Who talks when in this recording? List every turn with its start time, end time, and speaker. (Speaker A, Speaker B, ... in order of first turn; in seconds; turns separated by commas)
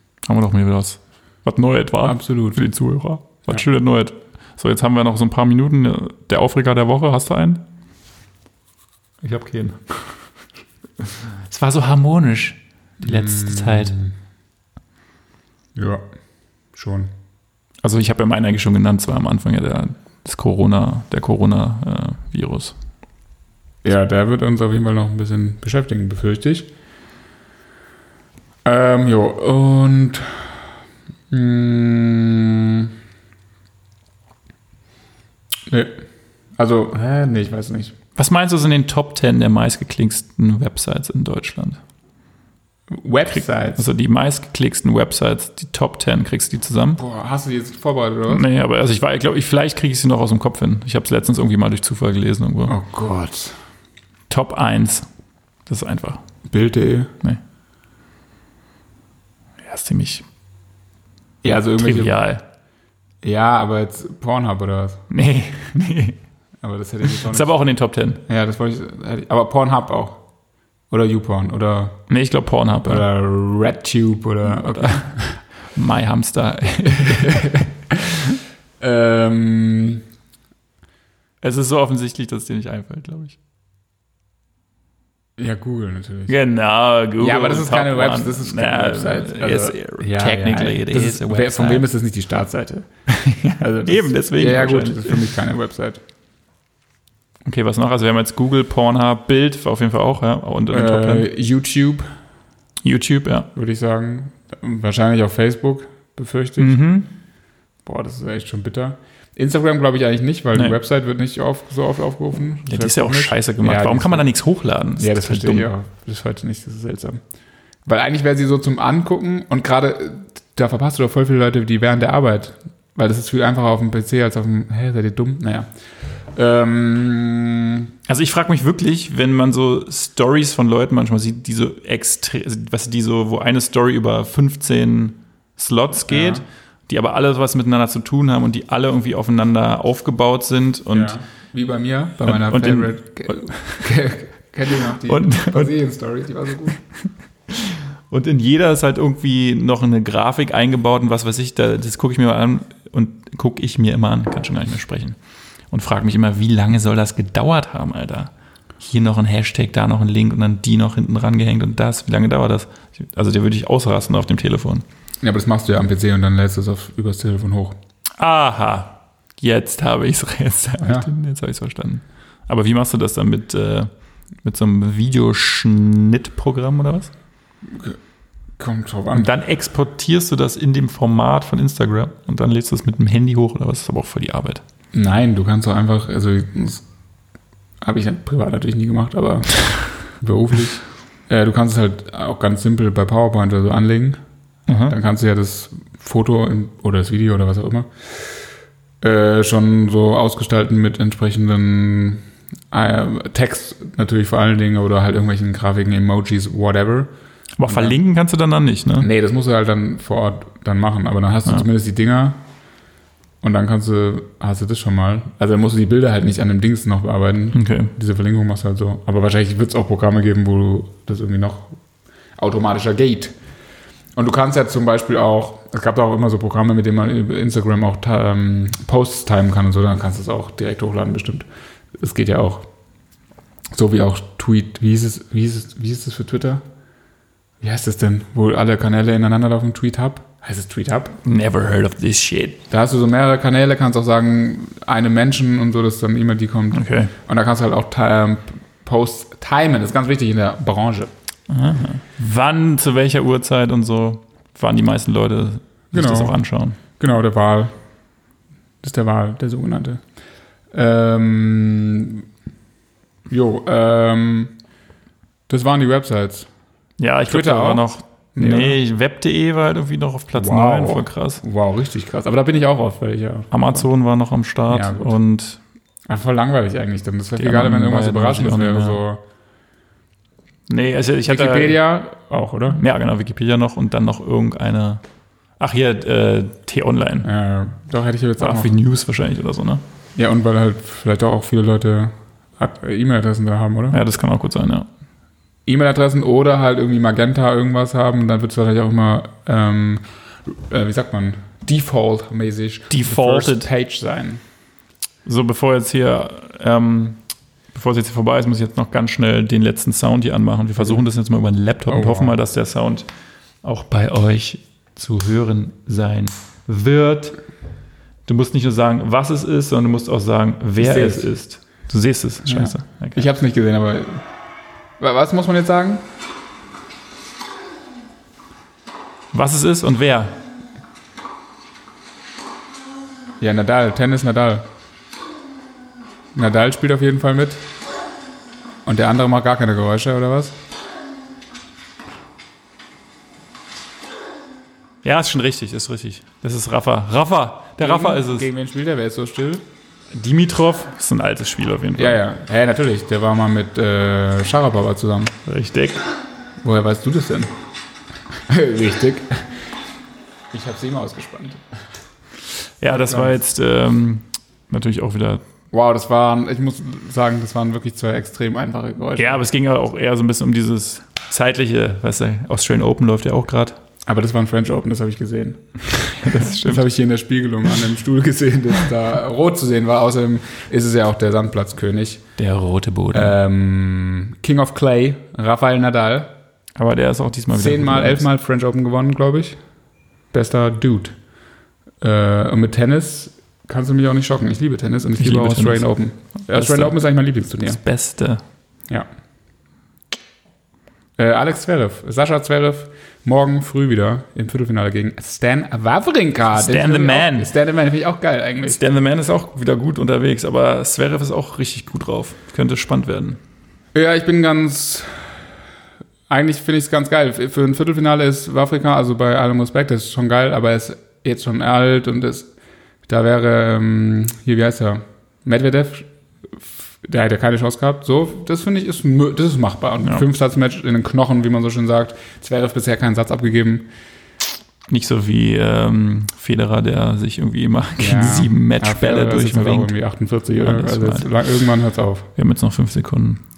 Speaker A: 0.2-7.6, Speaker B: 2.0-2.6, Speaker A: 9.2-10.1, Speaker A: 11.4-14.0, Speaker B: 13.1-14.1, Speaker B: 15.8-16.0, Speaker B: 16.7-17.1, Speaker A: 17.8-22.7, Speaker B: 23.8-26.7, Speaker B: 28.6-30.6, Speaker B: 31.3-32.9, Speaker B: 35.7-36.0, Speaker B: 36.6-37.9, Speaker A: 38.2-41.8, Speaker B: 42.9-43.9, Speaker A: 43.7-47.0, Speaker B: 47.0-48.5, Speaker A: 48.3-52.8, Speaker B: 52.7-53.5, Speaker A: 54.3-55.1, Speaker A: 55.7-56.2, Speaker B: 56.5-57.1, Speaker A: 59.6-60.2, Speaker B: 61.4-62.2, Speaker A: 61.8-62.4, Speaker B: 63.2-65.0, Speaker A: 65.1-66.2, Speaker B: 66.6-67.5, Speaker A: 67.3-68.2, Speaker B: 68.3-70.2, Speaker B: 70.9-72.0, Speaker A: 72.1-73.1, Speaker B: 72.8-75.4, Speaker A: 74.5-75.2, Speaker A: 75.7-77.5, Speaker B: 77.0-78.2, Speaker B: 78.8-80.0, Speaker A: 81.4-83.4, Speaker B: 85.4-86.4, Speaker A: 86.3-91.9, Speaker B: 87.2-92.9, Speaker A: 93.1-95.3, Speaker B: 93.6-96.0, Speaker A: 97.5-101.3, Speaker B: 100.7-102.1, Speaker A: 102.8-103.5, Speaker B: 103.5-106.8, Speaker A: 106.6-107.1, Speaker B: 107.8-114.3, Speaker A: 112.7-115.7, Speaker B: 115.0-117.2, Speaker B: 117.8-127.9, Speaker A: 128.1-141.2, Speaker B: 136.1-136.4, Speaker B: 140.9-146.8, Speaker A: 142.2-143.9, Speaker A: 145.0-145.7, Speaker A: 147.5-155.2, Speaker A: 155.7-164.8, Speaker B: 165.2-167.8, Speaker A: 168.2-173.9, Speaker B: 170.8-171.1, Speaker A: 174.4-177.1, Speaker B: 177.7-178.0, Speaker B: 178.6-179.3, Speaker A: 179.1-184.6, Speaker B: 184.9-186.8, Speaker B: 187.8-194.2, Speaker A: 194.7-194.9, Speaker B: 194.9-198.4, Speaker B: 199.0-207.1, Speaker A: 207.6-209.1, Speaker B: 207.7-208.0, Speaker B: 209.0-212.4, Speaker B: 213.4-221.8, Speaker A: 217.5-217.9, Speaker B: 222.4-223.4, Speaker B: 224.2-232.7, Speaker B: 233.7-236.6, Speaker B: 237.6-241.2, Speaker A: 241.2-242.6, Speaker B: 242.7-251.1, Speaker A: 246.7-247.1, Speaker A: 251.5-256.8, Speaker B: 255.9-257.8, Speaker B: 258.8-260.0, Speaker B: 260.7-262.3, Speaker B: 263.3-264.5, Speaker B: 265.5-266.5, Speaker A: 267.0-271.4, Speaker B: 267.3-268.8, Speaker B: 270.3-273.9, Speaker A: 273.5-275.6, Speaker B: 274.7-275.2, Speaker B: 276.1-279.2, Speaker A: 277.4-279.0, Speaker A: 280.7-281.8, Speaker B: 281.3-282.8, Speaker A: 282.8-285.0, Speaker A: 285.6-287.3, Speaker B: 287.2-288.7, Speaker A: 288.4-289.8, Speaker B: 290.2-294.0, Speaker A: 293.9-294.9, Speaker B: 295.7-304.4, Speaker A: 302.9-303.7, Speaker A: 305.2-307.2, Speaker A: 307.7-313.1, Speaker B: 311.9-312.4, Speaker A: 313.6-317.4, Speaker A: 318.3-323.3, Speaker B: 320.8-321.3, Speaker B: 322.4-324.2, Speaker B: 325.0-326.1, Speaker A: 329.3-330.4, Speaker B: 333.4-334.7, Speaker B: 336.4-337.6, Speaker B: 338.9-340.6, Speaker A: 345.0-348.5, Speaker B: 347.8-349.7, Speaker A: 350.1-352.2, Speaker B: 352.0-355.4, Speaker A: 355.4-356.0, Speaker B: 356.6-357.5, Speaker B: 358.5-359.5, Speaker B: 360.5-361.6, Speaker A: 362.8-365.4, Speaker B: 362.8-363.4, Speaker B: 365.7-369.4, Speaker A: 369.2-373.8, Speaker B: 374.1-382.2, Speaker A: 376.1-376.8, Speaker A: 382.4-383.4, Speaker B: 383.1-386.3, Speaker A: 386.8-388.2, Speaker B: 387.5-389.6, Speaker B: 390.3-391.2, Speaker B: 392.0-397.8, Speaker A: 395.2-395.9, Speaker A: 396.5-397.0, Speaker A: 397.6-398.4, Speaker B: 401.2-408.8, Speaker A: 406.5-407.5, Speaker A: 408.6-413.4, Speaker B: 413.9-415.4, Speaker B: 416.3-422.5, Speaker B: 423.1-433.9, Speaker A: 434.9-439.9, Speaker B: 438.0-442.3, Speaker A: 440.6-441.3, Speaker A: 442.4-443.4